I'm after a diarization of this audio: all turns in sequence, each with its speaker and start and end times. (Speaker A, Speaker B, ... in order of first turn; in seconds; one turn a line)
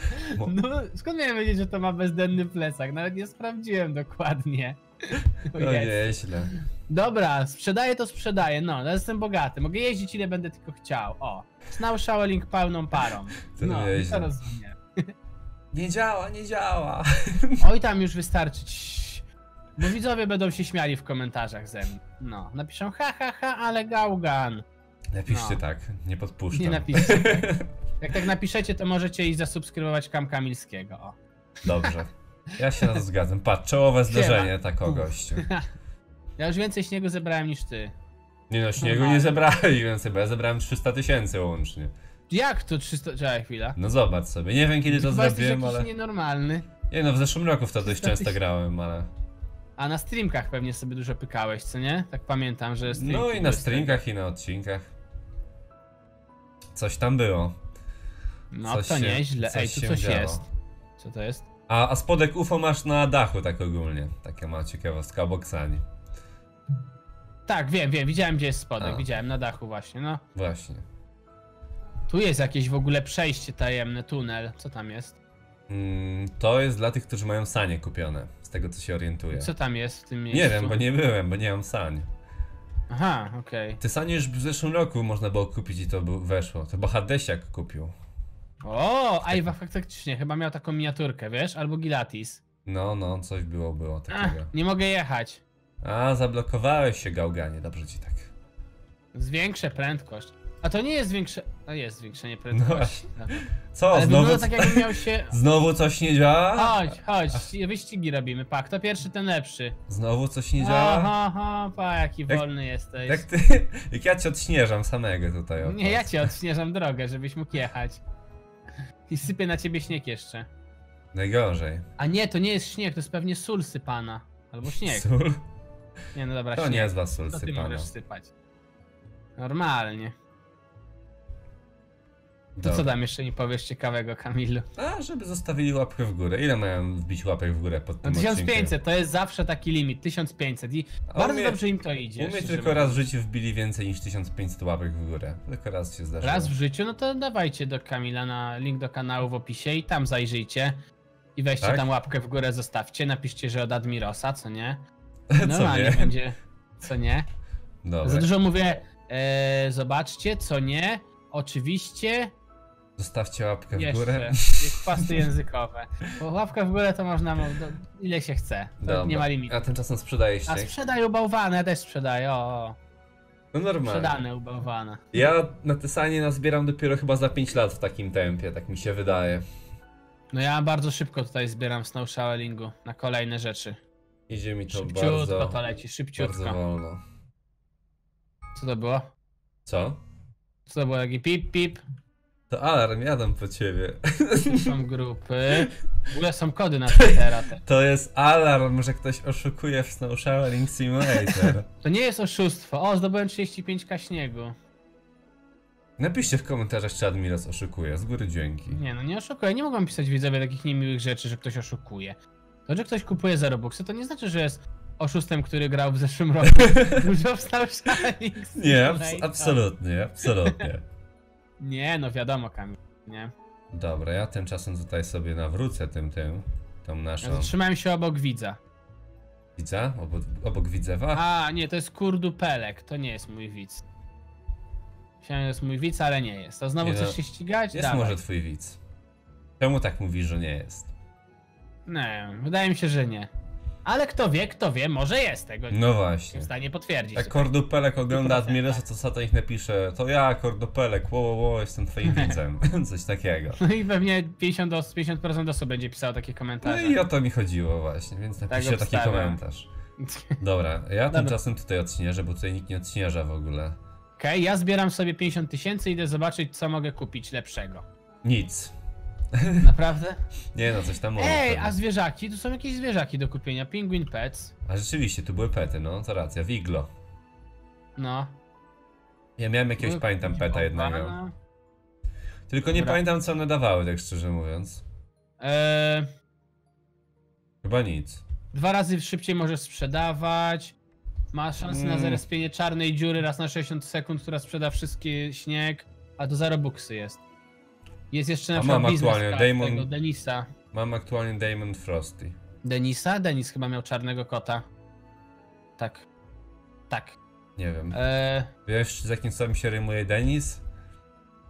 Speaker A: 0.1-6.2
Speaker B: 5.5-6.5
Speaker A: 6.9-15.1
Speaker B: 13.6-14.3
Speaker B: 15.7-17.6
Speaker A: 17.6-19.2
Speaker A: 19.8-24.6
Speaker B: 25.1-27.7
Speaker A: 25.3-25.6
Speaker A: 26.5-31.2
Speaker B: 31.6-35.5
Speaker A: 34.1-35.6
Speaker A: 36.4-37.9
Speaker B: 38.5-41.9
Speaker A: 38.8-39.3
Speaker A: 42.3-43.8
Speaker B: 43.8-45.9
Speaker A: 44.9-46.7
Speaker B: 46.9-49.1
Speaker A: 47.8-48.4
Speaker A: 49.8-54.0
Speaker B: 52.8-54.9
Speaker B: 56.7-57.5
Speaker A: 58.5-60.5
Speaker B: 58.6-60.4
Speaker A: 61.0-61.5
Speaker B: 61.7-65.8
Speaker A: 67.5-70.2
Speaker B: 68.8-69.1
Speaker B: 70.3-70.8
Speaker A: 72.1-75.2
Speaker B: 75.7-79.5
Speaker A: 79.3-80.8
Speaker B: 80.3-82.1
Speaker A: 82.9-83.8
Speaker B: 83.8-87.9
Speaker A: 88.6-92.4
Speaker B: 92.7-94.5
Speaker A: 94.1-95.4
Speaker B: 95.8-98.3
Speaker A: 99.1-105.3
Speaker B: 102.5-107.5
Speaker A: 106.5-109.8
Speaker B: 109.9-111.1
Speaker A: 110.6-113.2
Speaker B: 113.0-116.3
Speaker A: 115.6-118.0
Speaker A: 119.1-120.5
Speaker B: 121.1-121.8
Speaker A: 122.0-125.1
Speaker B: 124.8-125.4
Speaker A: 126.1-128.3
Speaker B: 126.5-127.9
Speaker A: 129.4-130.1
Speaker B: 132.6-132.9
Speaker A: 132.6-134.6
Speaker B: 134.8-138.7
Speaker A: 138.0-143.0
Speaker B: 141.1-141.6
Speaker B: 142.2-146.5
Speaker A: 146.2-150.8
Speaker A: 151.3-154.8
Speaker B: 151.6-151.9
Speaker B: 155.3-156.1
Speaker A: 155.4-157.2
Speaker B: 157.8-158.3
Speaker A: 158.0-162.3
Speaker B: 163.0-165.3
Speaker A: 163.7-169.5
Speaker B: 168.8-170.7
Speaker A: 170.5-172.8
Speaker B: 173.5-174.2
Speaker A: 173.8-175.0
Speaker B: 175.1-179.4
Speaker A: 180.3-183.8
Speaker B: 184.3-185.6
Speaker A: 184.7-186.6
Speaker B: 186.2-187.0
Speaker A: 188.5-189.1
Speaker B: 189.7-190.0
Speaker A: 190.7-191.8
Speaker B: 192.5-194.7
Speaker A: 194.5-197.6
Speaker B: 196.9-201.7
Speaker A: 201.4-204.5
Speaker B: 206.0-208.8
Speaker A: 208.7-219.6
Speaker B: 216.6-217.1
Speaker B: 218.5-220.8
Speaker A: 220.2-220.6
Speaker A: 221.6-223.3
Speaker B: 223.7-227.5
Speaker A: 227.2-228.6
Speaker B: 229.6-231.2
Speaker A: 231.1-233.8
Speaker A: 235.2-238.2
Speaker B: 236.8-237.2
Speaker B: 237.7-238.8
Speaker B: 239.6-240.9
Speaker A: 241.8-243.3
Speaker A: 243.8-247.5
Speaker B: 245.7-246.5
Speaker B: 247.1-253.6
Speaker A: 248.1-248.8
Speaker A: 252.0-252.4
Speaker A: 253.6-257.0
Speaker B: 256.6-259.7
Speaker A: 258.5-259.4
Speaker A: 260.0-260.4
Speaker B: 260.4-263.8
Speaker A: 261.1-261.4
Speaker A: 264.2-267.8
Speaker B: 268.2-268.7
Speaker B: 269.4-269.6
Speaker A: 269.6-270.2
Speaker B: 270.5-271.8
Speaker A: 271.2-274.5
Speaker B: 274.6-276.9
Speaker A: 278.0-278.4
Speaker B: 279.4-281.2
Speaker A: 279.8-281.3
Speaker B: 282.5-284.8
Speaker A: 282.7-283.0
Speaker A: 285.4-286.1
Speaker B: 287.6-288.2
Speaker A: 288.5-290.8
Speaker A: 291.3-297.2
Speaker B: 291.6-292.2
Speaker A: 298.1-300.5
Speaker B: 298.5-299.9
Speaker B: 300.7-302.4
Speaker A: 302.6-304.6
Speaker A: 305.8-306.1
Speaker A: 306.9-307.2
Speaker B: 307.6-308.0
Speaker A: 307.9-308.5
Speaker B: 308.6-310.6